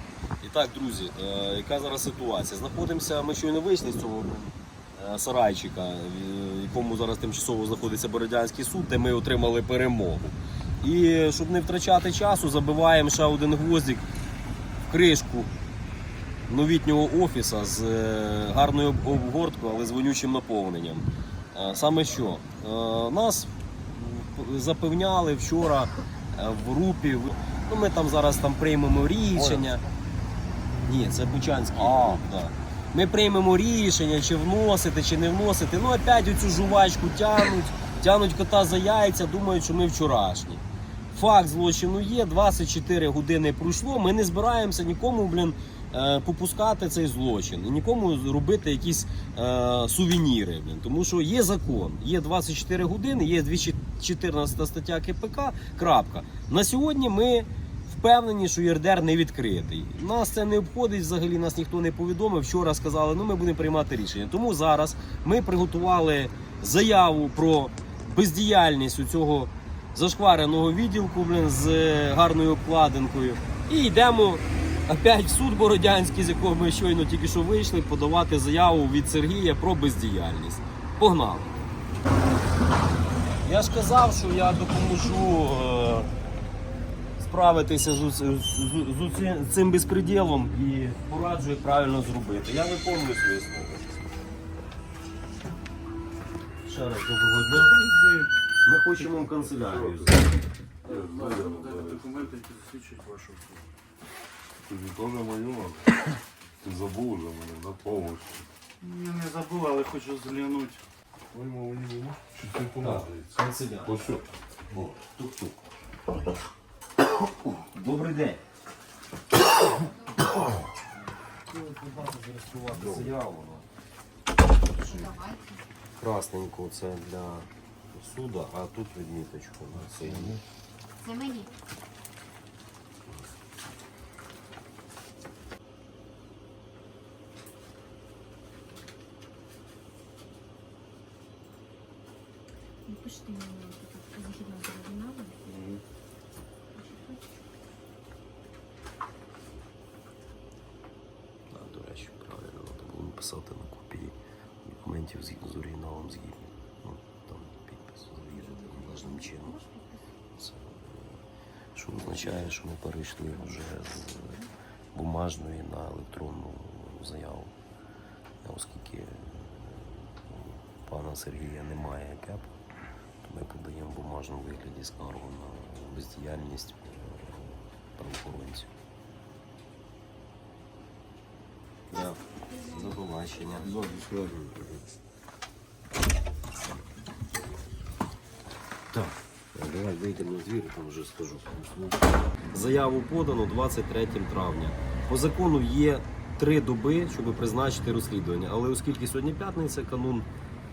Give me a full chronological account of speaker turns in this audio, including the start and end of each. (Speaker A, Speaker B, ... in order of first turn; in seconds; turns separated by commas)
Speaker A: 0.4-14.1, Speaker A: 14.9-15.5, Speaker A: 16.5-29.8, Speaker A: 30.8-81.5, Speaker A: 83.4-86.1, Speaker A: 87.2-93.9, Speaker A: 96.6-97.8, Speaker A: 98.6-100.3, Speaker B: 99.4-100.2, Speaker B: 100.8-102.3, Speaker C: 100.9-103.6, Speaker B: 104.7-106.0, Speaker B: 106.6-108.5, Speaker C: 108.8-110.8, Speaker A: 111.3-112.1, Speaker B: 112.3-113.3, Speaker A: 112.8-115.6, Speaker B: 113.8-114.2, Speaker A: 117.4-118.4, Speaker C: 121.5-123.0, Speaker A: 122.6-123.7, Speaker D: 124.8-125.6, Speaker A: 126.0-130.4, Speaker B: 129.9-130.4, Speaker D: 131.0-131.5, Speaker D: 142.8-145.4, Speaker B: 145.4-145.8, Speaker D: 146.7-147.2, Speaker A: 151.5-159.6, Speaker D: 158.3-160.1, Speaker A: 160.3-161.1, Speaker A: 161.7-164.4, Speaker A: 164.9-167.5, Speaker A: 168.4-172.5, Speaker A: 173.2-178.7, Speaker A: 181.9-184.8, Speaker C: 183.8-184.2, Speaker A: 188.9-200.3